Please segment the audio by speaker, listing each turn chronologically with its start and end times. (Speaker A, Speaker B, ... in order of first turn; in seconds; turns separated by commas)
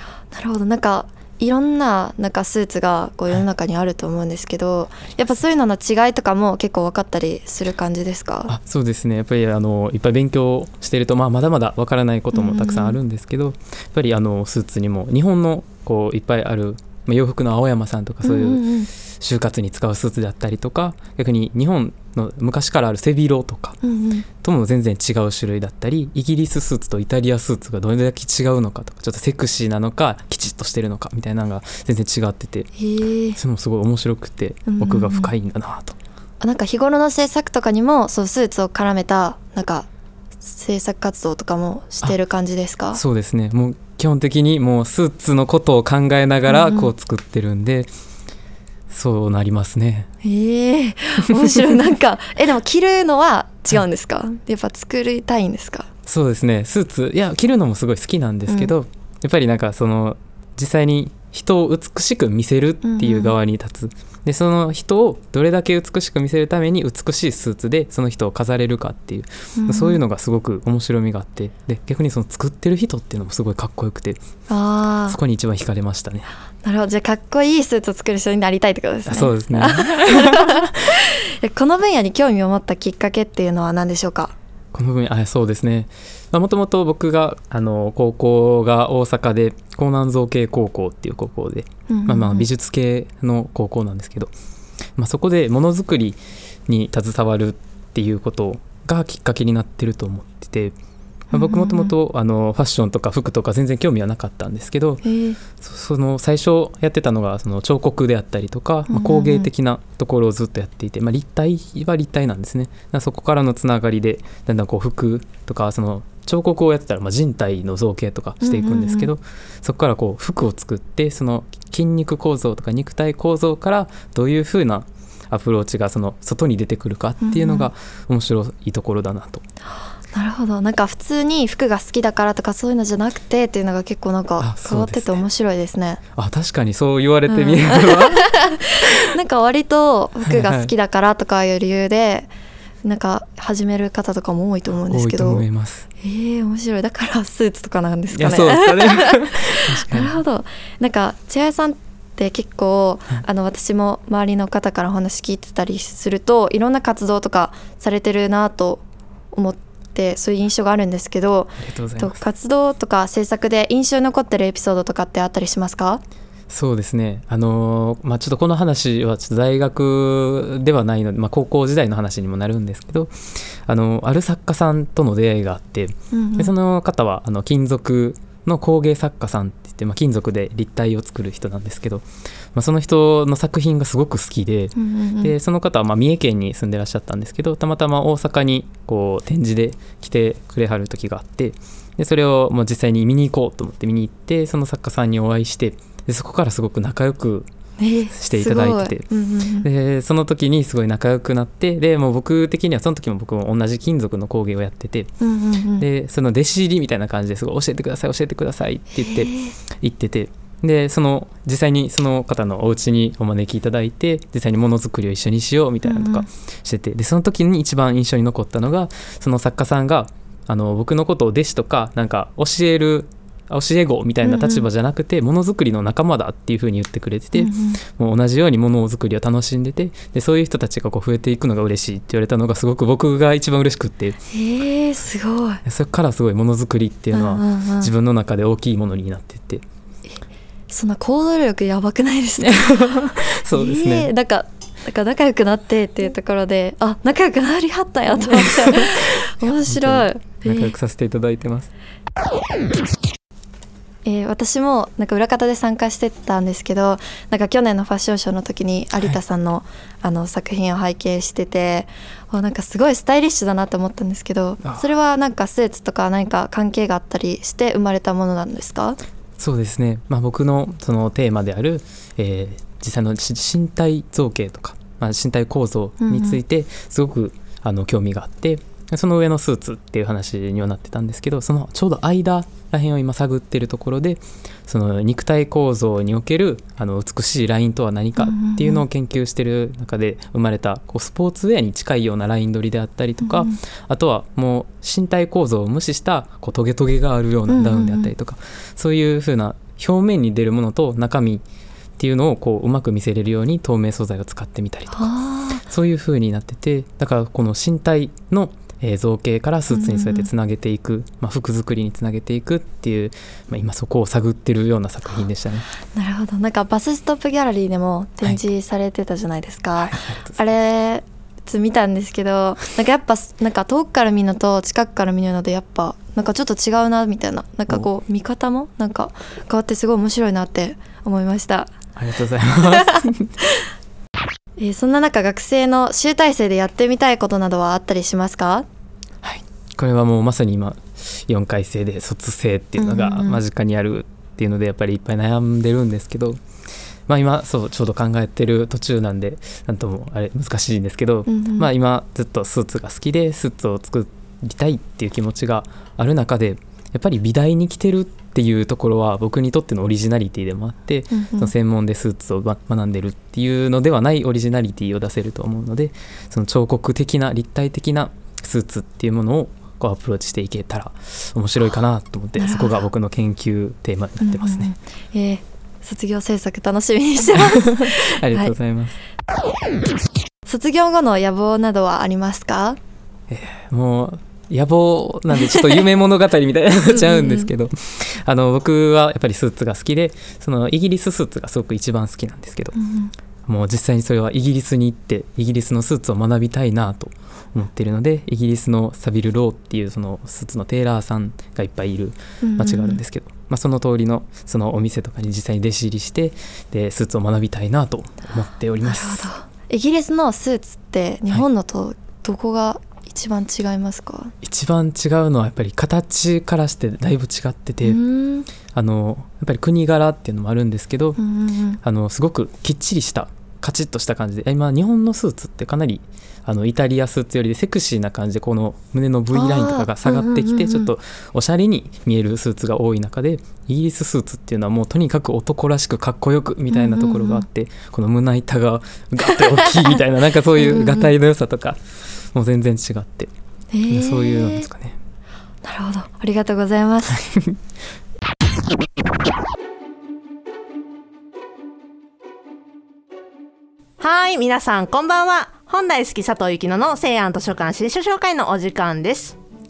Speaker A: 0.3-8.5, Speaker B: 8.5-23.8, Speaker A: 12.3-13.0, Speaker A: 18.2-18.9, Speaker A: 23.8-24.2, Speaker B: 24.4-32.7, Speaker A: 32.8-33.4, Speaker B: 33.3-36.0, Speaker A: 34.7-35.3, Speaker A: 36.4-39.9, Speaker A: 40.4-43.0, Speaker B: 42.9-47.9, Speaker A: 46.5-46.9, Speaker B: 48.9-50.1, Speaker A: 50.2-55.9, Speaker B: 56.0-74.2, Speaker A: 62.8-63.3, Speaker A: 69.5-70.0, Speaker A: 74.5-75.2, Speaker B: 75.1-76.3, Speaker A: 76.6-84.3, Speaker B: 79.1-80.7, Speaker B: 84.7-94.3, Speaker A: 91.9-92.5, Speaker B: 95.0-100.7, Speaker A: 101.3-101.9, Speaker B: 101.3-129.4, Speaker A: 105.0-105.4, Speaker A: 108.9-109.5, Speaker A: 118.4-119.1, Speaker A: 127.2-127.7, Speaker A: 130.1-136.0, Speaker B: 134.4-135.2, Speaker B: 136.1-138.3, Speaker A: 137.3-142.3, Speaker B: 140.2-140.7, Speaker A: 142.8-145.4, Speaker B: 144.9-145.9, Speaker A: 146.0-166.0, Speaker B: 148.1-150.2, Speaker B: 161.6-162.2, Speaker B: 166.5-197.5, Speaker A: 176.1-176.5, Speaker A: 184.8-185.3, Speaker A: 197.8-199.7, Speaker B: 198.1-199.1, Speaker B: 199.6-205.1, Speaker A: 205.2-205.8, Speaker B: 205.8-234.2, Speaker A: 208.9-209.5, Speaker A: 215.8-216.2, Speaker A: 224.2-224.7, Speaker A: 227.3-227.8, Speaker A: 234.3-235.6, Speaker B: 235.6-239.6, Speaker A: 237.1-237.9, Speaker A: 240.7-242.9, Speaker B: 242.7-244.1, Speaker A: 243.5-250.7, Speaker B: 248.2-251.7, Speaker A: 254.0-269.0, Speaker B: 269.4-301.4, Speaker A: 276.0-276.4, Speaker A: 288.2-288.8, Speaker A: 293.2-293.6, Speaker A: 297.5-298.1, Speaker B: 302.0-315.7, Speaker A: 304.9-305.6, Speaker A: 309.7-310.3, Speaker A: 315.9-331.7, Speaker B: 319.8-320.4, Speaker B: 331.9-333.3, Speaker A: 334.6-338.6, Speaker B: 339.2-346.4, Speaker A: 342.8-343.4, Speaker B: 347.1-374.7, Speaker A: 351.3-351.7, Speaker A: 361.1-361.5, Speaker A: 372.4-372.8, Speaker A: 374.2-378.5, Speaker B: 377.7-379.0, Speaker A: 380.4-382.8, Speaker B: 383.3-392.7, Speaker A: 386.9-387.5, Speaker A: 392.7-393.1, Speaker B: 393.4-409.3, Speaker A: 402.4-403.0, Speaker A: 408.8-414.3, Speaker B: 414.4-418.0, Speaker A: 417.8-418.5, Speaker B: 418.7-421.2, Speaker A: 421.2-421.8, Speaker B: 421.8-443.3, Speaker A: 429.3-430.9, Speaker A: 436.7-437.4, Speaker A: 440.6-441.1, Speaker A: 443.7-444.7, Speaker B: 443.9-445.0, Speaker A: 445.6-447.2, Speaker B: 447.1-447.6, Speaker C: 454.0-459.4